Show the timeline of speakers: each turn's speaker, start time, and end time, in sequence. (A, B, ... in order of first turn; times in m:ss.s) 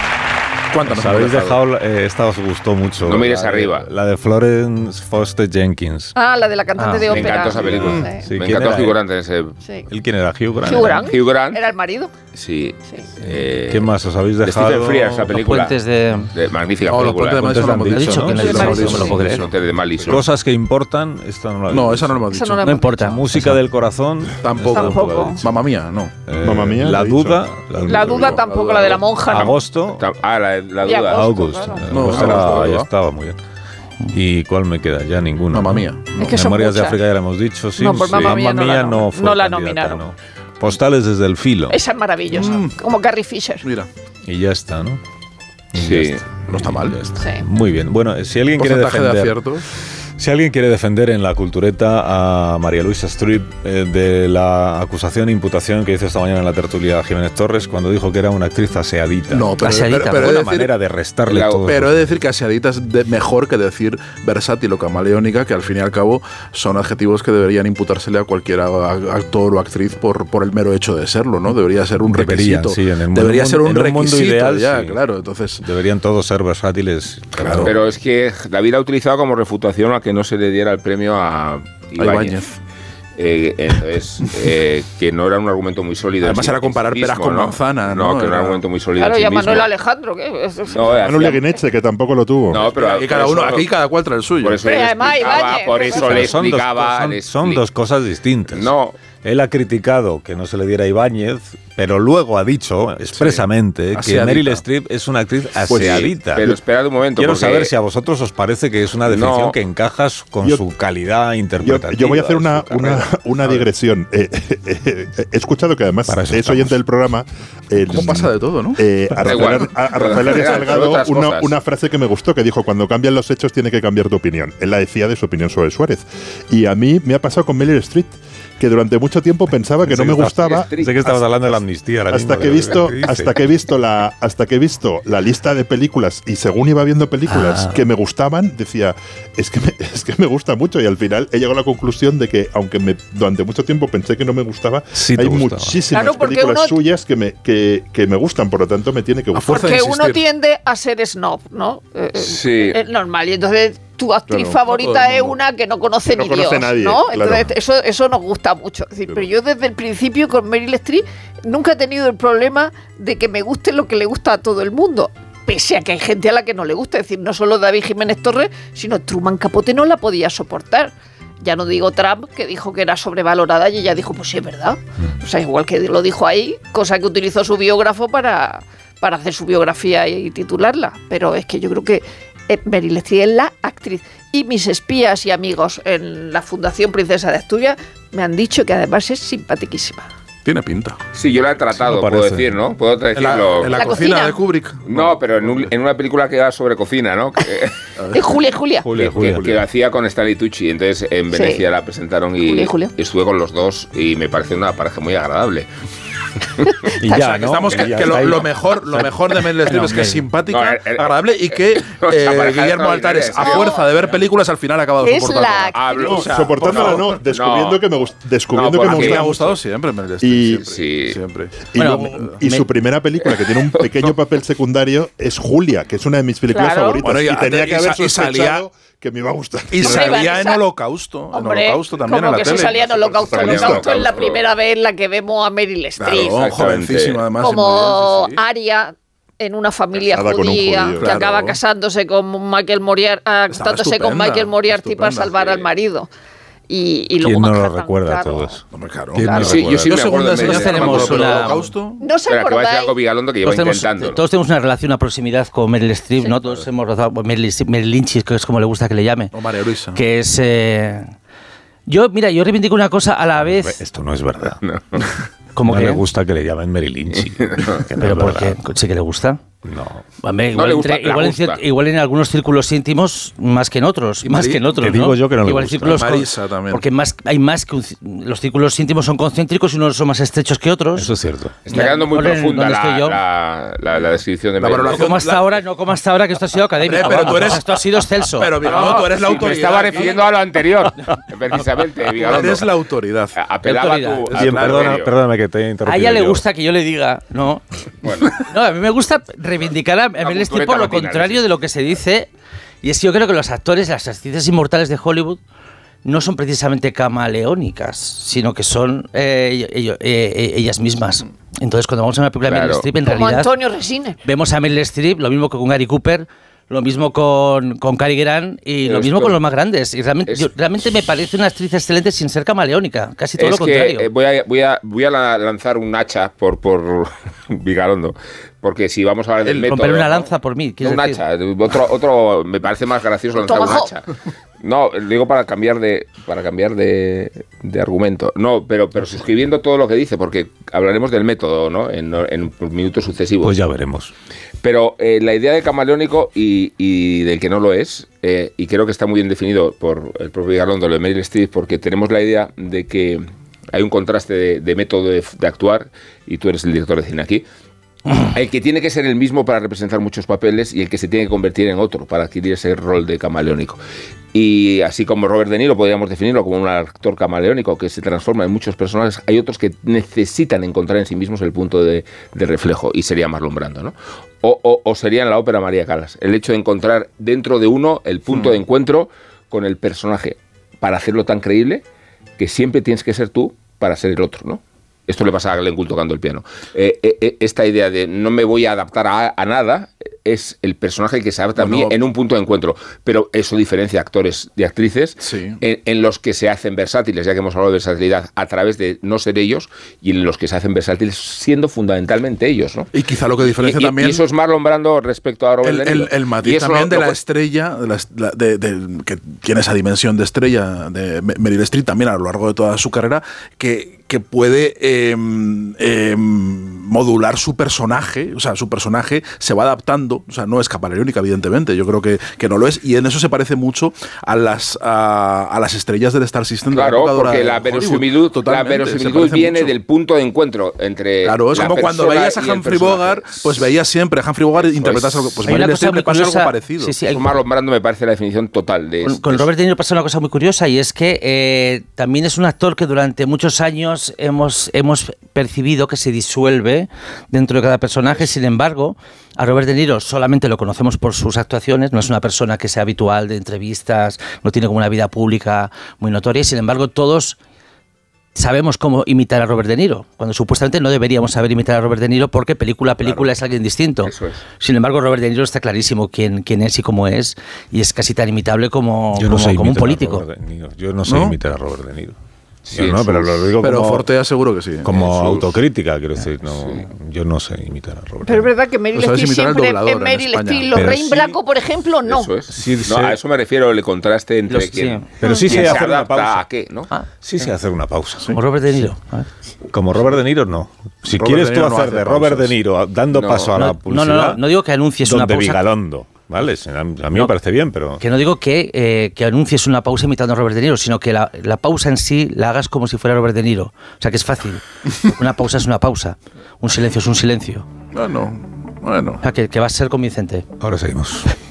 0:00.7-0:01.6 A
0:00.8-0:06.1 B
0:03.0-0:03.9 C
0:06.1-0:08.2 D
0:06.8-0:07.1 E
0:07.0-0:09.6 C
0:07.3-0:09.0 B
0:09.9-0:11.1 B
0:10.6-0:12.1 D
0:10.8-0:11.6 C
0:12.3-0:13.9 C
0:13.2-0:15.4 B
0:14.4-0:15.8 C
0:15.3-0:16.3 E
0:16.3-0:17.7 C
0:16.8-0:20.2 A
0:17.3-0:19.1 B
0:17.9-0:19.4 E
0:18.3-0:19.1 D
0:19.2-0:20.2 C
0:20.0-0:22.3 B
0:21.7-0:22.8 A
0:22.3-0:22.9 D
0:22.6-0:23.6 E
0:23.0-0:25.5 B
0:24.4-0:26.1 A
0:24.6-0:25.4 D
0:26.2-0:28.4 B
0:26.4-0:27.4 F
0:27.8-0:29.6 D
0:28.0-0:29.4 C
0:28.2-0:28.9 A
0:29.3-0:30.0 B
0:30.0-0:32.7 C
0:30.8-0:31.9 D
0:31.1-0:33.4 B
0:31.9-0:32.9 A
0:34.1-0:41.8 B
0:35.5-0:36.3 A
0:36.2-0:37.0 D
0:37.8-0:40.0 D
0:41.7-0:43.6 D
0:42.3-0:42.8 A
0:43.6-0:43.9 A
0:44.2-0:45.0 B
0:45.7-0:49.4 B
0:45.8-0:46.2 C
0:46.5-0:47.0 A
0:47.2-0:47.4 D
0:48.6-0:49.6 A
0:50.2-1:02.2 B
0:59.3-1:00.7 A
0:59.6-1:00.3 E
1:01.3-1:01.6 C
1:01.4-1:15.6 A
1:12.0-1:15.0 B
1:15.6-1:17.8 B
1:17.4-1:17.7 A
1:17.5-1:22.4 C
1:22.0-1:22.6 A
1:23.2-1:29.7 C
1:26.2-1:28.6 A
1:29.0-1:31.5 D
1:30.7-1:31.4 C
1:31.0-1:32.7 F
1:32.5-1:33.7 C
1:32.7-1:34.6 A
1:34.4-1:37.6 C
1:34.6-1:36.3 D
1:35.9-1:46.6 B
1:38.5-1:39.0 C
1:43.9-1:44.6 A
1:45.7-1:46.1 F
1:45.7-1:47.7 C
1:47.2-1:53.7 B
1:49.1-1:49.6 C
1:51.6-2:11.1 F
1:56.1-1:56.8 B
1:57.9-1:58.8 A
1:59.2-2:01.5 C
2:09.8-2:13.4 B
2:10.1-2:11.1 C
2:12.1-2:29.6 F
2:17.3-2:17.8 E
2:24.9-2:25.8 B
2:25.9-2:26.8 D
2:29.3-2:30.2 A
2:29.5-3:10.1 D
2:32.2-2:32.8 C
2:34.7-2:35.4 A
2:36.1-2:37.5 F
3:10.4-3:11.0 A
3:11.1-3:14.0 C
3:11.8-3:12.5 B
3:13.1-3:15.7 A
3:13.7-3:14.4 D
3:14.8-3:17.8 C
3:18.0-3:18.4 A
3:18.1-3:18.9 D
3:18.8-3:19.6 B
3:18.9-3:25.7 C
3:21.3-3:21.6 D
3:22.4-3:22.9 D
3:27.0-3:29.8 B
3:27.1-3:35.8 A
3:29.9-3:30.2 E
3:30.5-3:33.8 C
3:33.4-3:33.8 D
3:35.0-3:36.2 D
3:35.7-3:37.8 C
3:36.0-3:39.6 F
3:36.6-3:37.0 A
3:38.5-3:39.3 C
3:38.8-3:41.5 A
3:40.2-3:40.6 F
3:40.6-3:41.2 C
3:41.7-3:50.3 F
3:41.7-3:42.7 E
3:43.8-3:44.1 C
3:46.5-3:47.0 D
3:47.0-3:48.6 A
3:49.7-3:53.2 A
3:49.8-3:50.6 D
3:51.3-3:56.4 D
3:52.5-3:54.4 C
3:53.3-3:54.1 F
3:56.0-3:58.4 A
3:56.2-3:57.2 C
3:57.4-4:06.1 D
4:00.1-4:01.2 F
4:01.0-4:01.6 A
4:03.5-4:05.4 A
4:05.4-4:05.6 C
4:06.7-4:08.6 D
4:07.2-4:08.6 B
4:08.7-4:12.0 A
4:09.1-4:10.1 B
4:09.2-4:09.6 D
4:09.3-4:11.6 C
4:10.4-4:11.6 E
4:12.0-4:12.9 D
4:12.3-4:14.2 C
4:13.4-4:19.3 E
4:19.3-4:20.0 A
4:19.9-4:21.1 E
4:21.9-4:23.8 E
4:23.4-4:24.6 B
4:24.6-4:25.1 C
4:25.5-4:26.0 E
4:25.6-4:28.6 B
4:27.4-4:27.8 C
4:28.0-4:29.4 E
4:29.6-4:30.0 B
4:30.2-4:41.1 E
4:30.5-4:31.6 C
4:34.2-4:34.7 A
4:34.7-4:36.0 B
4:35.8-4:36.8 A
4:40.9-4:41.6 B
4:41.6-4:45.2 C
4:41.7-4:43.2 E
4:44.6-4:45.5 A
4:44.8-4:49.0 E
4:46.8-4:50.3 A
4:48.6-4:52.8 C
4:52.2-4:53.4 A
4:53.3-4:55.1 C
4:53.6-4:54.3 E
4:54.3-4:55.0 A
4:54.3-4:56.4 B
4:55.8-4:57.6 E
4:58.0-4:58.4 C
4:58.3-5:02.3 E
5:00.2-5:01.4 C
5:02.8-5:05.4 E
5:06.0-5:13.5 E
5:12.5-5:12.8 C
5:13.0-5:14.2 D
5:14.2-5:24.1 E
5:18.8-5:19.4 C
5:23.4-5:30.3 C
5:29.6-5:31.2 E
5:30.8-5:34.1 C
5:33.4-5:33.9 D
5:34.6-5:43.6 C
5:43.4-5:44.1 B
5:44.6-5:57.4 C
5:58.2-6:03.8 C
6:04.3-6:21.8 C
6:22.4-6:42.9 C
6:31.6-6:32.0 A
6:35.2-6:35.6 A
6:42.9-6:44.2 A
6:43.4-6:47.2 C
6:45.6-7:09.7 A
7:06.7-7:13.7 C
7:11.2-7:16.9 A
7:14.6-7:15.4 C
7:15.4-7:17.4 E
7:17.1-7:19.5 C
7:19.0-7:37.4 E
7:38.3-7:50.2 E
7:44.0-7:44.4 C
7:49.1-7:52.2 B
7:51.0-7:51.4 A
7:52.7-7:53.5 C
7:52.7-7:54.1 B
7:53.6-7:55.0 A
7:54.8-7:58.5 B
7:54.9-7:55.5 C
7:56.5-7:56.8 C
7:58.2-8:02.3 D
7:58.9-8:01.0 A
8:00.7-8:01.4 B
8:02.1-8:06.9 C
8:02.5-8:03.2 B
8:04.5-8:05.1 E
8:05.2-8:06.4 B
8:07.2-8:08.8 B
8:08.3-8:09.3 E
8:09.7-8:14.4 B
8:11.1-8:12.5 A
8:13.1-8:13.5 C
8:13.6-8:15.6 E
8:15.0-8:18.0 B
8:18.0-8:27.6 E
8:27.9-8:29.2 A
8:29.2-8:30.4 E
8:30.6-8:31.3 B